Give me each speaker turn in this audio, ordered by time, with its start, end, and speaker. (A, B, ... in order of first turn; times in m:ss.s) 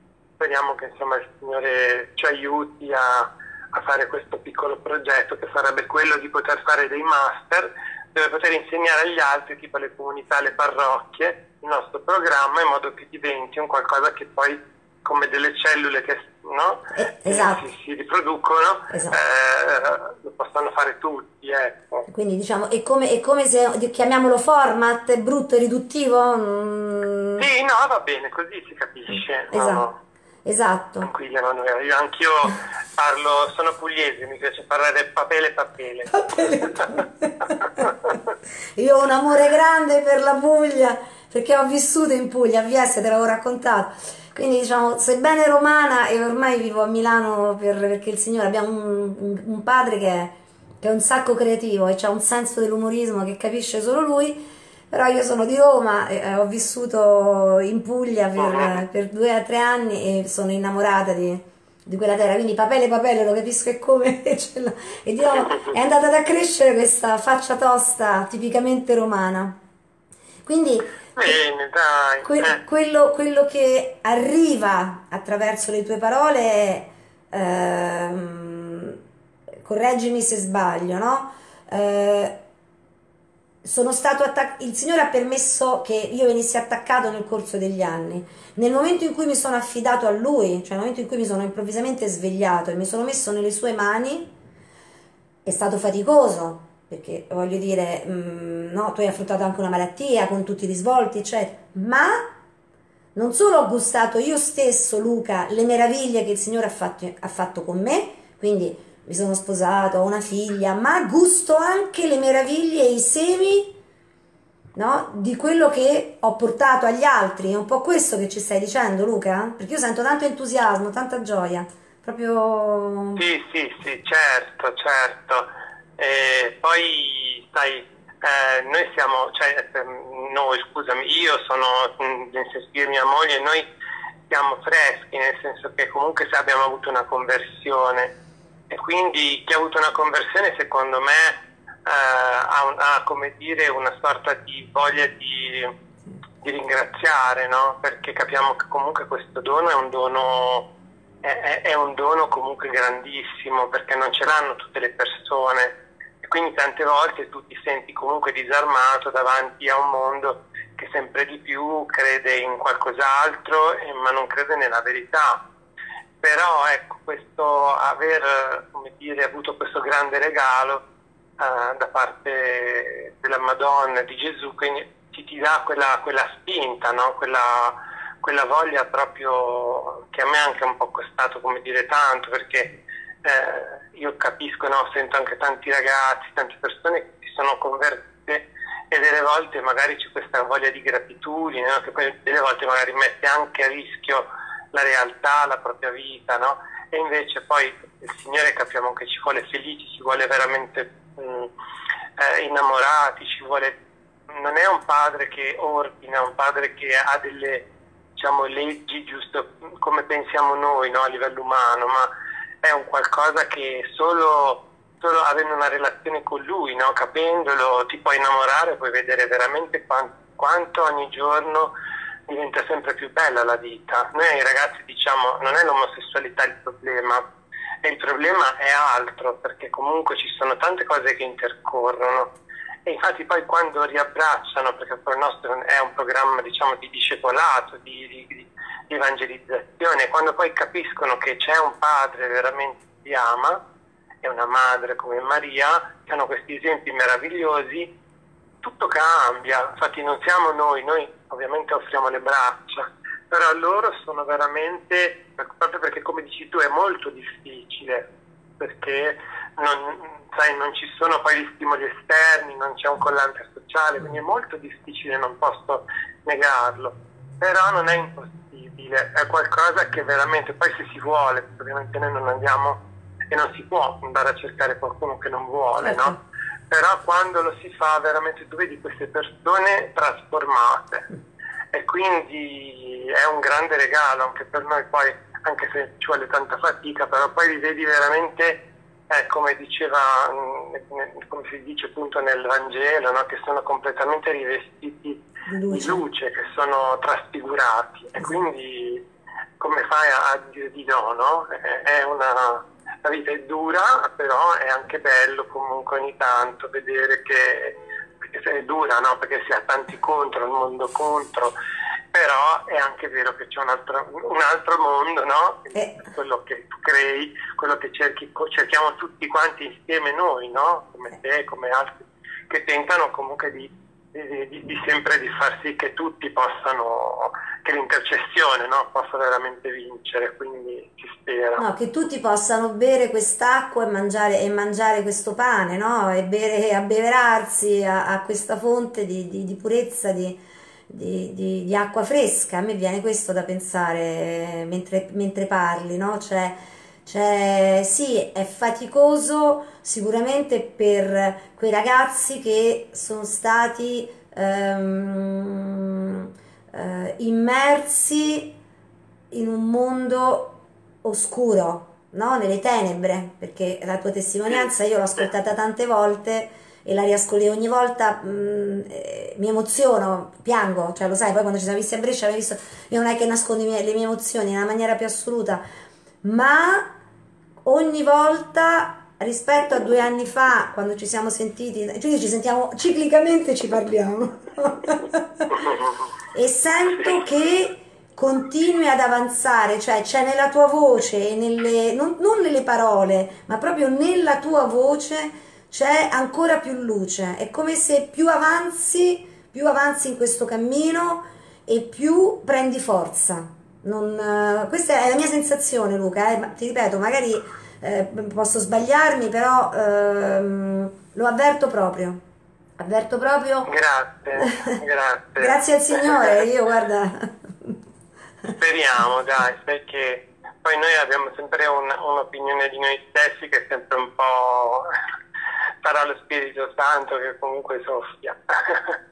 0:00.4-0:22.1 A
0:16.9-0:17.6 B
0:18.9-0:19.2 B
0:22.1-0:27.4 B
0:27.4-0:30.0 A
0:29.5-0:29.8 B
0:30.4-0:31.1 B
0:31.0-0:36.8 A
0:36.1-0:37.9 B
0:37.8-0:38.2 A
0:38.8-1:09.6 B
0:58.4-0:58.8 A
1:10.4-1:11.4 B
1:11.2-1:12.6 A
1:12.2-1:19.0 B
1:19.6-1:22.4 B
1:23.6-1:34.3 B
1:35.4-1:42.3 B
1:43.1-1:53.8 B
1:54.7-2:03.2 B
2:03.2-2:13.7 A
2:14.3-2:18.1 A
2:18.7-2:25.7 A
2:26.4-2:30.7 A
2:31.2-2:45.4 A
2:46.2-2:50.8 A
2:51.4-3:21.5 A
3:22.2-3:32.1 A
3:32.6-3:41.7 A
3:42.3-3:47.2 A
3:47.8-3:52.3 A
3:52.8-4:03.6 A
4:04.2-4:07.9 A
4:08.6-4:18.1 A
4:18.6-4:36.2 A
4:35.8-4:36.2 B
4:36.7-4:41.0 A
4:41.7-4:59.0 A
4:55.5-4:56.0 B
4:59.6-5:11.5 A
5:12.1-5:31.6 A
5:15.7-5:16.0 B
5:31.6-5:58.6 B
5:59.3-6:15.6 B
6:16.2-6:16.9 B
6:17.6-6:25.7 B
6:25.6-6:25.9 A
6:26.3-6:52.2 B
6:52.8-6:53.7 B
6:53.6-6:56.3 A
6:54.4-6:54.7 B
6:55.4-6:57.8 B
6:58.6-7:04.9 A
7:05.8-7:09.0 A